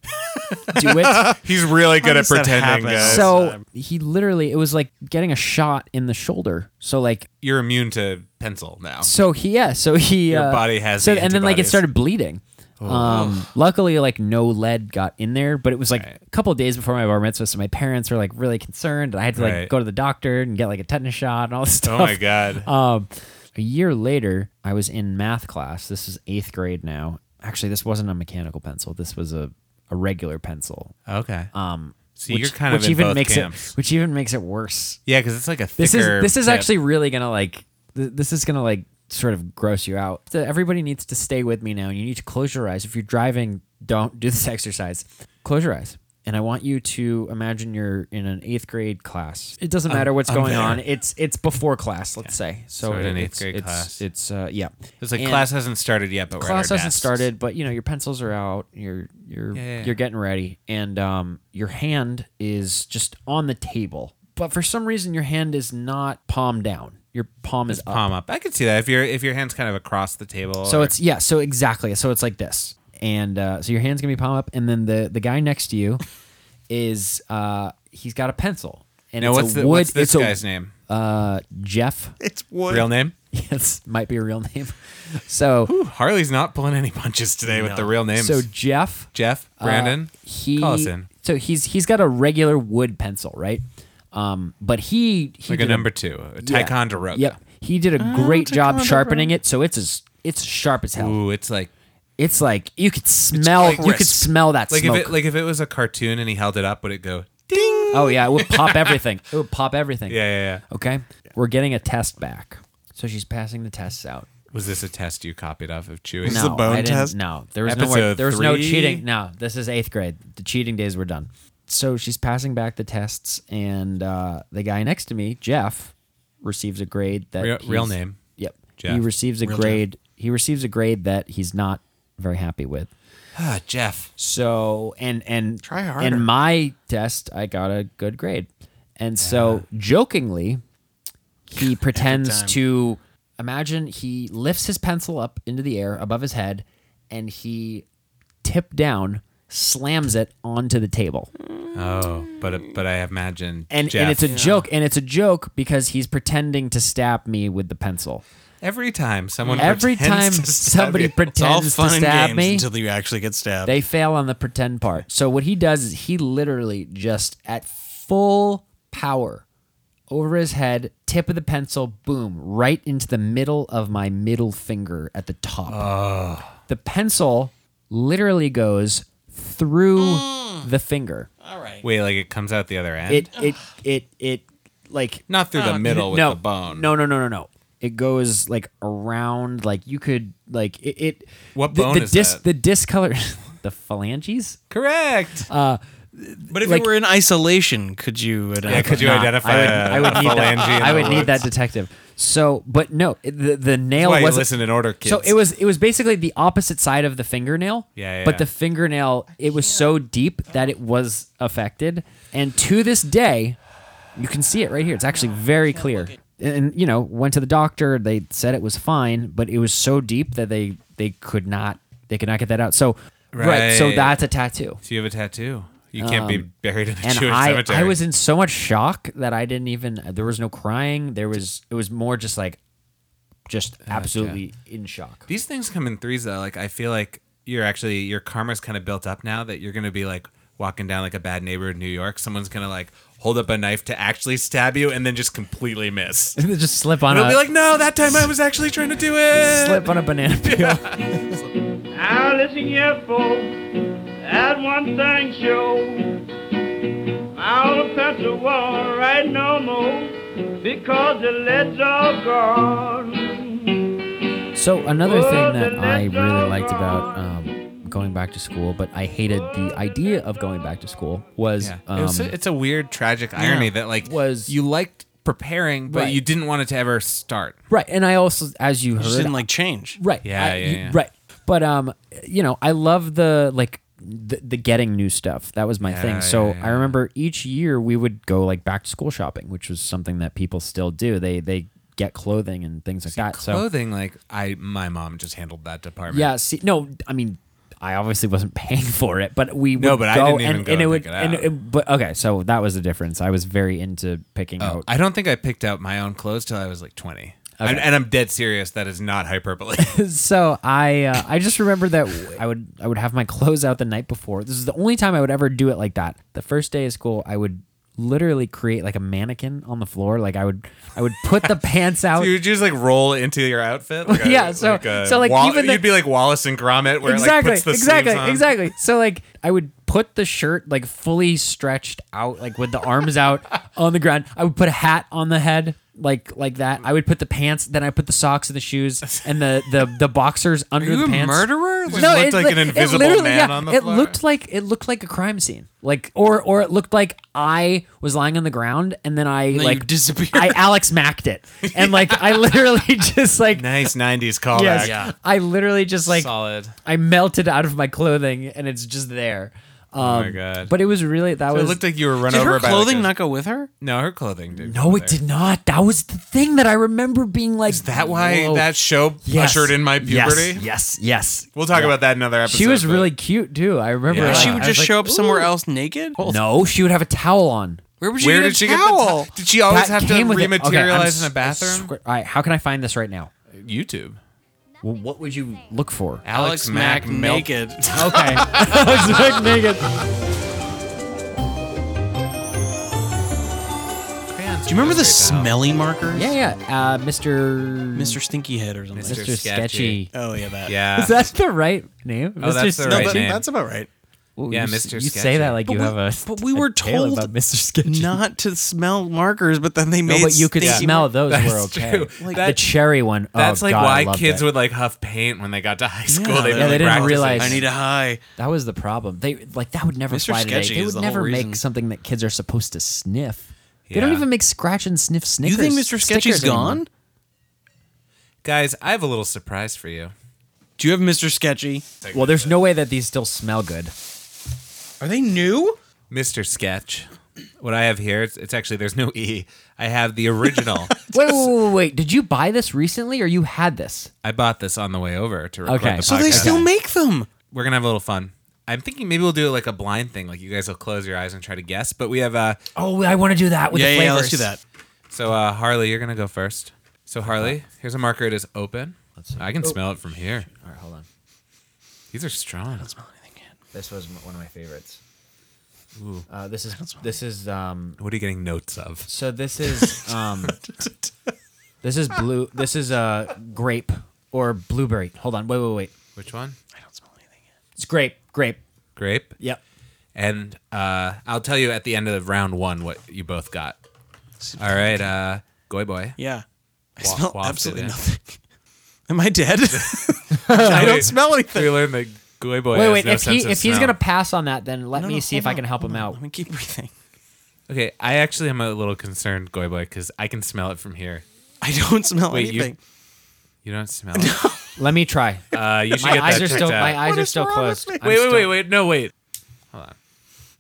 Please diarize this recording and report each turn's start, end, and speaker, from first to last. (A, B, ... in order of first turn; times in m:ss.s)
0:00.7-0:03.3 A
0:00.7-0:01.4 B
0:01.8-0:03.6 C
0:03.0-0:07.3 B
0:07.4-0:09.1 A
0:09.0-0:31.0 B
0:10.3-0:11.8 A
0:12.8-0:13.2 A
0:13.0-0:13.5 C
0:19.4-0:19.7 A
0:21.8-0:22.7 A
0:31.1-0:31.5 A
0:31.5-0:35.0 B
0:32.2-0:33.7 A
0:35.1-0:36.7 A
0:35.8-0:55.5 B
0:49.9-0:50.8 A
0:52.2-0:54.0 A
0:55.0-0:57.3 A
0:56.4-1:08.1 B
0:59.5-0:59.9 A
1:07.7-1:10.9 A
1:10.6-1:16.0 B
1:16.7-1:22.2 B
1:19.2-1:20.7 A
1:22.2-1:22.9 C
1:22.7-1:23.1 A
1:23.3-1:25.7 B
1:25.7-1:28.5 A
1:27.5-1:28.0 C
1:28.2-1:41.2 B
1:29.1-1:31.1 A
1:35.5-1:37.4 A
1:38.0-1:39.4 C
1:41.0-1:41.7 A
1:42.2-1:45.2 B
1:43.4-1:44.3 C
1:43.6-1:43.9 A
1:44.7-1:48.9 A
1:47.5-1:48.3 C
1:47.9-1:54.3 B
1:50.1-1:50.6 A
1:54.5-1:56.5 A
1:56.2-1:57.2 C
1:56.2-2:12.9 B
1:57.6-1:59.0 A
2:07.4-2:08.2 A
2:09.4-2:09.8 C
2:13.4-2:14.1 A
2:14.2-2:18.5 B
2:15.6-2:16.3 C
2:19.0-2:20.6 B
2:19.2-2:19.6 A
2:21.5-2:27.8 B
2:21.6-2:22.6 C
2:28.4-2:31.3 B
2:31.6-2:32.3 C
2:31.7-2:34.4 A
2:33.7-2:38.2 B
2:34.3-2:34.6 C
2:38.6-2:41.3 A
2:39.4-2:39.7 C
2:39.6-2:42.7 B
2:41.3-2:43.7 C
2:43.6-2:49.4 B
2:50.1-2:55.9 B
2:55.7-2:56.5 A
2:56.7-3:01.3 B
3:00.0-3:00.7 C
3:01.4-3:01.8 C
3:01.8-3:03.3 A
3:03.1-3:14.6 B
3:05.3-3:06.9 A
3:05.6-3:05.9 C
3:11.6-3:12.4 A
3:14.7-3:15.5 A
3:15.5-3:16.9 B
3:16.5-3:21.4 C
3:18.7-3:21.5 A
3:18.7-3:24.5 B
3:24.0-3:25.4 A
3:25.0-3:33.6 B
3:28.0-3:28.5 A
3:34.2-3:44.8 B
3:35.4-3:36.1 C
3:43.3-3:44.2 A
3:44.8-3:48.0 A
3:46.0-3:46.5 B
3:47.0-3:52.6 B
3:53.5-3:55.3 B
3:53.9-3:54.4 A
3:55.3-4:06.4 A
4:06.4-4:07.4 B
4:07.1-4:11.2 A
4:09.4-4:11.1 B
4:11.8-4:16.3 D
4:17.4-4:23.9 D
4:24.6-4:32.4 B
4:25.0-4:27.3 D
4:31.6-4:37.6 A
4:33.4-4:34.5 B
4:35.9-4:36.2 B
4:37.7-4:39.4 B
4:39.0-4:40.0 C
4:40.0-4:53.6 B
4:40.2-4:41.0 A
4:45.8-4:47.0 A
4:53.1-4:56.3 A
4:56.1-5:04.9 B
4:59.8-5:01.5 A
5:04.6-5:10.0 A
5:07.6-5:07.9 B
5:09.8-5:22.4 B
5:22.2-5:28.6 A
5:24.0-5:26.0 B
5:27.0-5:53.7 B
5:40.8-5:42.2 C
5:41.9-5:44.2 A
5:49.5-5:50.6 C
5:51.7-5:52.4 A
5:53.5-5:55.0 A
5:54.5-5:56.3 B
5:54.8-5:55.1 C
5:56.1-5:56.8 A
5:56.8-6:01.8 B
6:00.0-6:00.7 A
6:01.5-6:03.1 A
6:02.2-6:03.7 C
6:03.8-6:05.2 A
6:04.6-6:08.7 B
6:07.7-6:10.6 A
6:09.2-6:15.5 B
6:11.6-6:13.1 A
6:14.1-6:14.7 A
6:14.1-6:16.4 C
6:16.2-6:17.8 B
6:18.0-6:19.3 C
6:18.2-6:21.9 A
6:19.7-6:23.3 B
6:23.5-6:24.2 A
6:24.8-6:26.2 B
6:26.2-6:28.9 A
6:26.3-6:28.4 C
6:27.9-6:29.9 B
6:34.3-6:35.6 A
6:34.7-6:36.3 C
6:36.1-6:38.2 B
6:38.0-6:39.3 C
6:38.9-6:40.1 A
6:39.1-6:40.1 B
6:40.1-6:40.8 C
6:40.6-6:41.2 A
6:41.0-6:43.3 B
6:42.4-6:43.4 A
6:42.9-6:43.9 C
6:44.4-6:48.2 B
6:44.5-6:45.7 A
6:45.7-6:47.3 C
6:47.8-6:51.1 C
6:50.1-6:54.5 B
6:50.6-6:52.7 A
6:53.4-6:57.7 A
6:56.1-6:58.2 C
6:56.5-6:57.6 B
6:58.4-7:06.8 B
7:00.1-7:01.6 C
7:03.9-7:04.3 A
7:05.4-7:06.9 C
7:08.4-7:10.1 A
7:10.8-7:11.8 C
7:12.0-7:12.6 A
7:12.1-7:13.9 B
7:15.0-7:15.8 C
7:16.1-7:21.0 A
7:21.1-7:24.1 B
7:24.2-7:26.7 A
7:25.7-7:26.7 B
7:26.0-7:27.3 C
7:27.5-7:32.6 A
7:32.8-7:34.5 B
7:33.7-7:34.6 C
7:35.1-7:40.5 A
7:37.3-7:37.5 B
7:39.2-7:39.8 B
7:40.5-7:41.1 B
7:42.1-7:42.9 A
7:42.8-7:43.5 C
7:43.7-7:45.0 B
7:46.0-7:46.3 A
7:46.3-7:48.0 B
7:46.8-7:47.0 C
7:48.0-7:49.1 A
7:49.1-7:50.6 B
7:51.8-7:55.9 B
7:56.2-7:56.6 A
7:56.7-7:57.3 C
7:57.8-7:58.6 B
7:59.0-7:59.4 A
8:00.2-8:03.8 A
8:04.4-8:05.1 C
8:04.6-8:06.2 A
8:06.2-8:06.4 C
8:07.0-8:08.4 C
8:07.0-8:08.0 A
8:09.1-8:11.9 C
8:09.7-8:14.0 A
8:10.4-8:10.8 B
8:12.7-8:16.2 B
8:15.0-8:16.9 C
8:17.7-8:21.2 A
8:21.6-8:22.8 C
8:22.3-8:22.7 A
8:23.6-8:24.4 A
8:24.1-8:24.8 C
8:24.8-8:28.6 B
8:25.5-8:27.0 A
8:26.0-8:28.0 C
8:28.0-8:29.1 A